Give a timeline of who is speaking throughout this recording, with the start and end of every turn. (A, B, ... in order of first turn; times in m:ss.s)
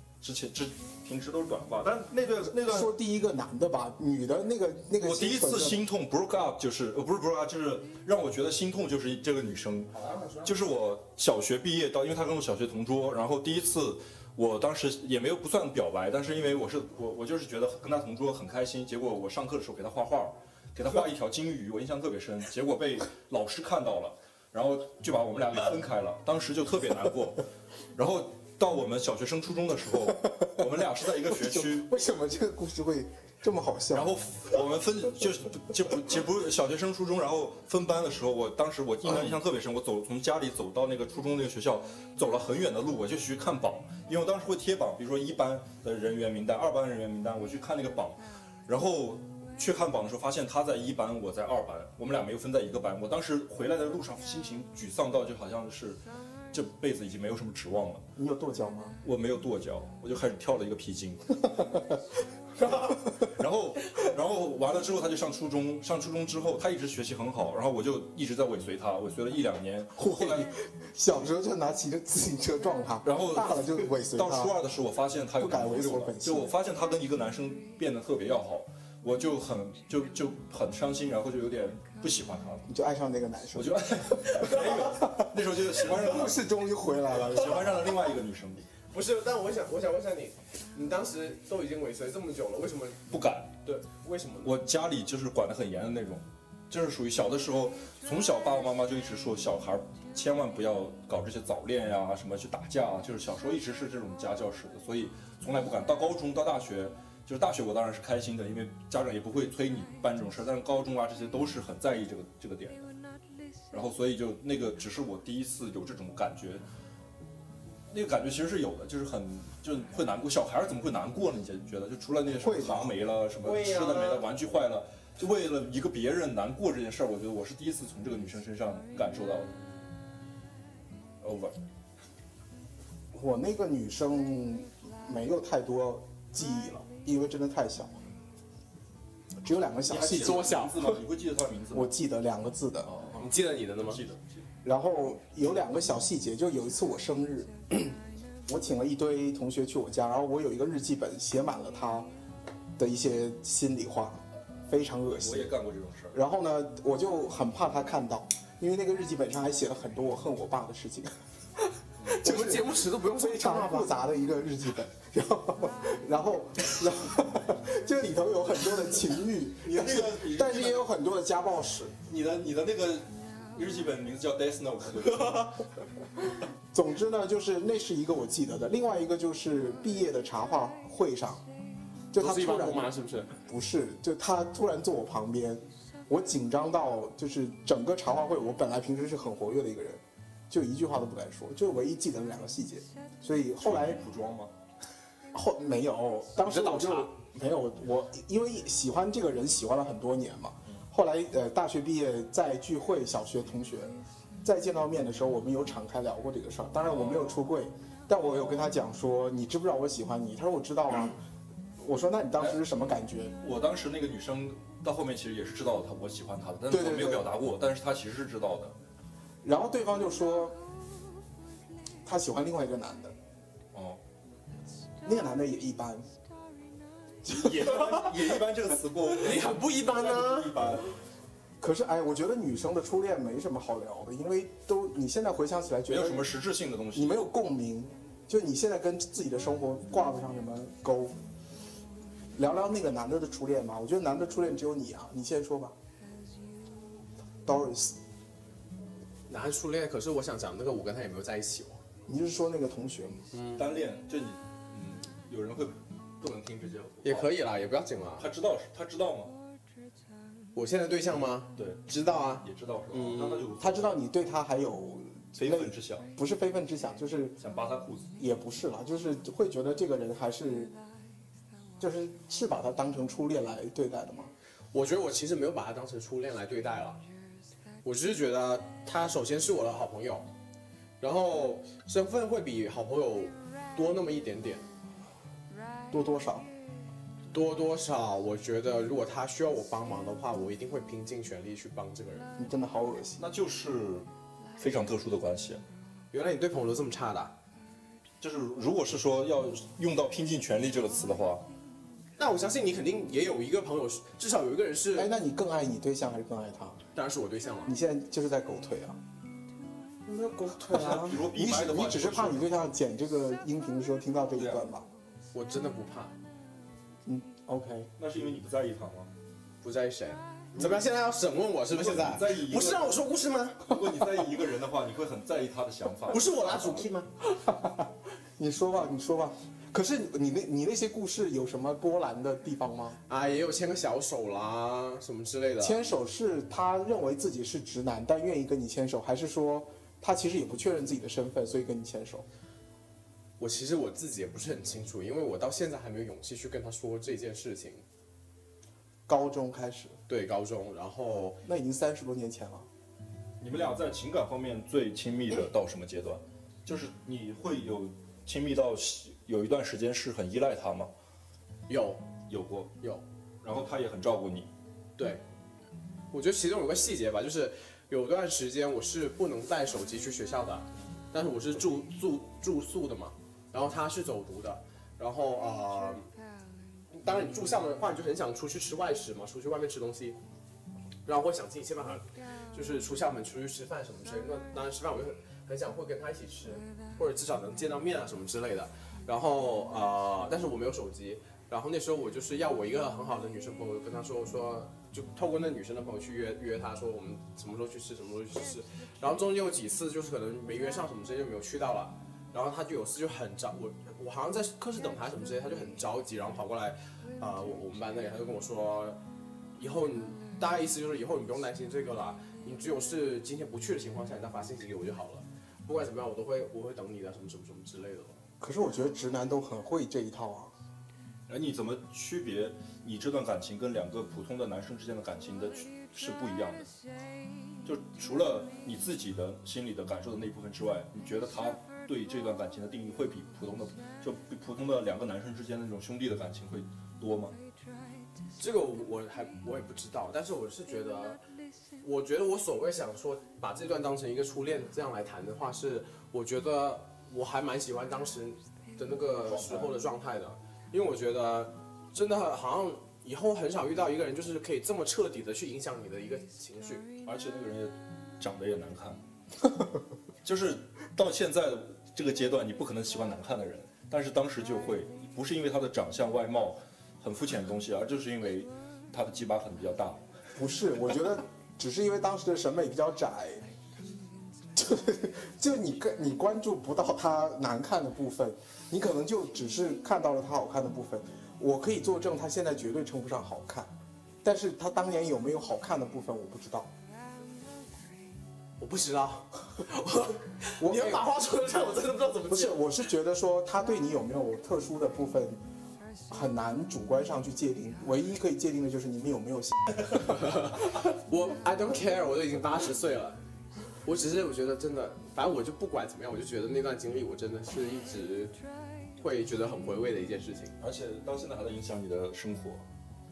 0:00.2-0:02.9 A
0:02.5-0:05.8 B
0:05.0-0:09.9 A
0:09.9-0:10.7 C
0:10.4-0:27.4 A
0:28.0-0:31.9 A
0:31.3-0:34.2 B
0:33.9-0:56.0 A
0:56.5-0:58.0 A
0:58.2-0:59.0 B
0:59.0-1:01.5 A
1:02.8-1:10.5 A
1:10.0-1:14.5 B
1:13.0-1:22.6 A
1:15.4-1:16.5 B
1:22.7-1:28.0 B
1:23.5-1:26.4 A
1:27.2-1:28.6 A
1:28.9-1:33.0 C
1:33.1-1:33.5 A
1:33.6-1:34.5 C
1:34.4-1:52.9 A
1:53.7-1:56.6 A
1:57.9-2:09.5 A
2:02.4-2:03.0 B
2:03.4-2:04.2 C
2:11.2-2:11.6 A
2:13.1-2:18.0 B
2:19.4-2:20.4 B
2:19.9-2:21.9 A
2:19.9-2:21.0 C
2:21.7-2:23.0 B
2:22.9-2:24.4 A
2:23.2-2:24.0 C
2:24.6-2:32.1 B
2:32.8-2:35.5 B
2:35.2-2:36.2 A
2:36.1-2:41.1 B
2:42.0-2:43.9 C
2:42.2-2:52.0 B
2:49.6-2:50.9 A
2:52.1-2:55.6 A
2:56.7-3:01.4 B
3:02.1-3:02.9 B
3:02.2-3:03.3 C
3:03.5-3:14.0 B
3:13.6-3:14.5 A
3:15.3-3:31.2 B
3:16.4-3:17.1 C
3:26.9-3:27.4 A
3:31.8-3:33.4 B
3:33.4-3:38.7 A
3:36.7-3:37.4 B
3:39.4-3:40.6 B
3:42.0-3:43.2 B
3:43.7-3:44.0 A
3:45.0-3:46.1 B
3:47.2-3:50.9 A
3:47.4-3:48.4 C
3:49.1-3:50.6 C
3:51.6-3:56.3 B
3:55.9-3:57.2 A
3:56.9-4:01.2 B
4:02.4-4:05.8 B
4:07.4-4:08.0 B
4:09.3-4:11.8 C
4:12.1-4:13.2 B
4:13.3-4:13.6 C
4:13.6-4:17.3 A
4:17.0-4:18.3 C
4:18.2-4:19.3 A
4:20.6-4:23.5 C
4:21.6-4:21.8 A
4:22.4-4:24.0 A
4:23.6-4:27.4 B
4:25.4-4:26.1 A
4:27.4-4:28.1 A
4:28.2-4:30.7 B
4:31.8-4:34.3 B
4:34.7-4:37.0 C
4:37.8-4:40.3 C
4:41.0-4:44.6 C
4:45.9-4:46.5 B
4:47.3-4:52.3 C
4:52.4-4:53.2 B
4:53.2-4:54.1 A
4:54.6-4:55.6 A
4:56.1-4:57.3 C
4:58.2-5:01.4 A
5:02.2-5:05.1 C
5:05.0-5:06.8 B
5:06.9-5:07.7 C
5:07.7-5:09.0 B
5:10.1-5:10.6 C
5:10.4-5:14.9 B
5:10.7-5:12.5 A
5:14.4-5:14.7 A
5:15.3-5:16.2 C
5:17.1-5:17.9 B
5:18.0-5:19.1 A
5:19.6-5:23.8 C
5:20.5-5:20.9 A
5:21.7-5:23.0 A
5:23.7-5:26.8 A
5:26.1-5:27.1 C
5:27.3-5:33.0 B
5:33.1-5:35.8 C
5:35.6-5:42.3 B
5:43.4-5:47.8 C
5:49.1-5:50.0 B
5:50.1-5:51.4 C
5:51.4-5:52.7 B
5:53.4-6:00.9 A
6:01.7-6:02.0 C
6:02.3-6:02.7 A
6:03.4-6:04.5 A
6:06.1-6:16.1 C
6:16.9-6:20.2 C
6:21.1-6:49.0 C
6:49.6-6:58.2 C
6:58.4-7:00.5 B
7:01.3-7:06.7 A
7:07.6-7:17.4 A
7:18.4-7:21.2 C
7:21.8-7:36.9 C
7:29.3-7:29.7 A
7:37.0-7:39.0 A
7:40.2-7:50.0 A
7:50.4-7:53.5 B
7:54.6-8:03.7 B
8:04.2-8:06.7 B
8:08.6-8:12.6 C
8:10.6-8:11.0 B
8:12.3-8:15.4 B
8:16.1-8:19.6 B
8:20.0-8:23.2 C
8:23.8-8:28.3 C
8:29.0-8:30.5 C
8:30.6-8:32.6 A